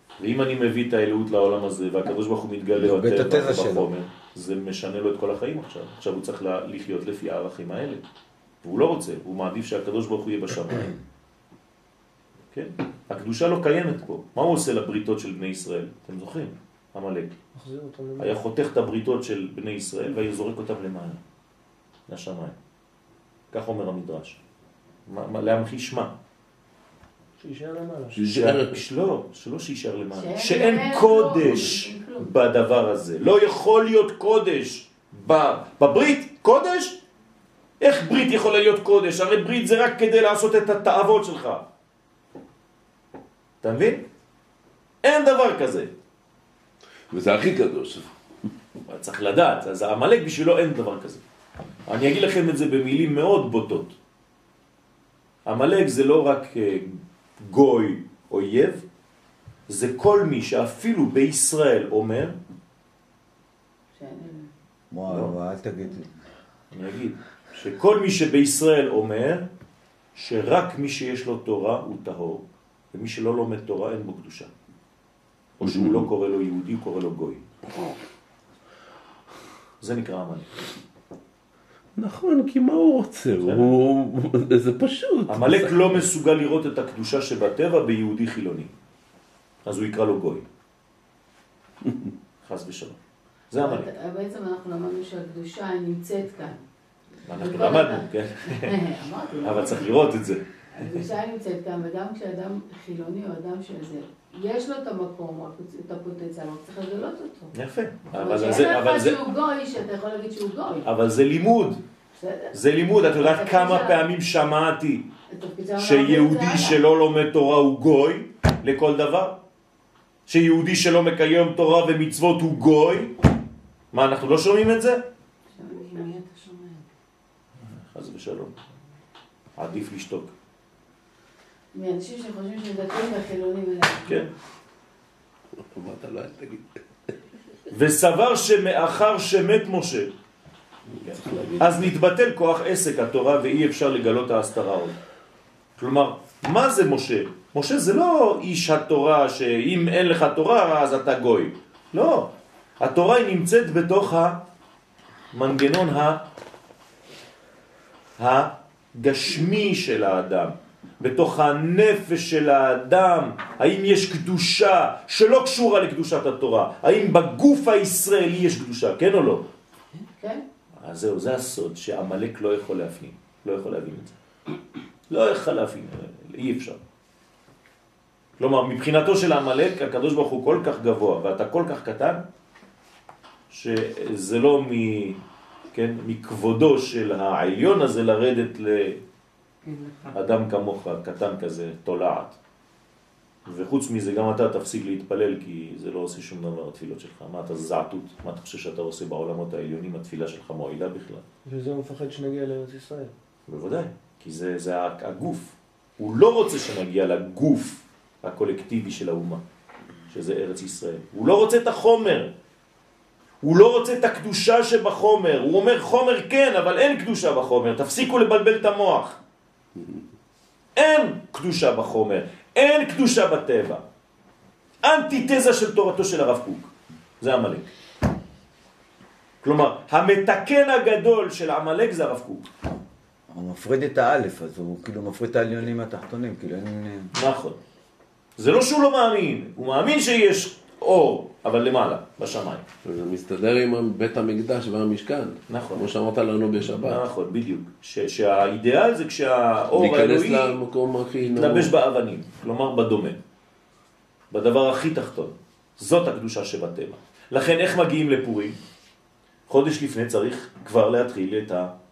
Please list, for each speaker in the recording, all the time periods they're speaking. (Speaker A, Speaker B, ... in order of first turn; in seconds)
Speaker A: 0.2-8.0, 8.6-10.9, 12.5-17.3, 18.2-21.2, 22.1-22.5, 23.5-24.4, 25.1-26.1, 28.2-37.0, 37.8-41.6, 43.6-44.0, 45.0-45.9, 48.9-51.2, 51.9-54.0, 55.5-58.8, 59.7-62.3, 66.7-69.5, 70.1-74.5, 75.6-77.4, 79.8-80.5, 83.4-83.7, 85.3-88.7, 89.6-90.4, 92.4-93.0, 93.5-93.9, 97.3-98.8, 99.4-100.4, 107.5-109.2, 110.8-111.8, 112.5-115.1, 115.8-119.4, 120.3-123.1, 123.9-125.0, 127.6-128.6, 129.6-130.3, 137.7-140.1, 141.0-145.0, 145.8-154.4, 155.3-156.2, 158.2-169.4, 170.8-174.1, 175.1-176.8, 178.4-182.2, 183.5-185.2, 185.7-189.0, 190.1-192.4, 193.4-201.2, 203.5-209.4, 210.1-212.3, 213.4-219.2, 220.8-223.8, 224.8-227.7, 229.4-232.5, 237.1-237.6, 238.4-242.6, 245.5-245.9, 246.6-250.6, 251.2-253.2, 254.3-258.6, 259.5-261.7
Speaker B: 2.8-3.9, 64.9-66.1, 233.3-237.1
Speaker C: 17.5-18.3, 27.4-28.2, 201.4-203.1
Speaker D: 28.1-28.8, 47.1-48.1, 75.6-76.0, 82.0-86.1, 91.8-92.1, 135.6-137.1, 141.0-141.9, 242.8-247.0, 249.7-251.7
Speaker E: 30.1-32.3, 63.9-64.5, 93.6-96.6, 97.4-99.9, 100.8-107.5, 108.1-110.8, 112.2-114.0, 115.3-116.8, 125.5-126.9, 131.7-134.3, 170.2-170.4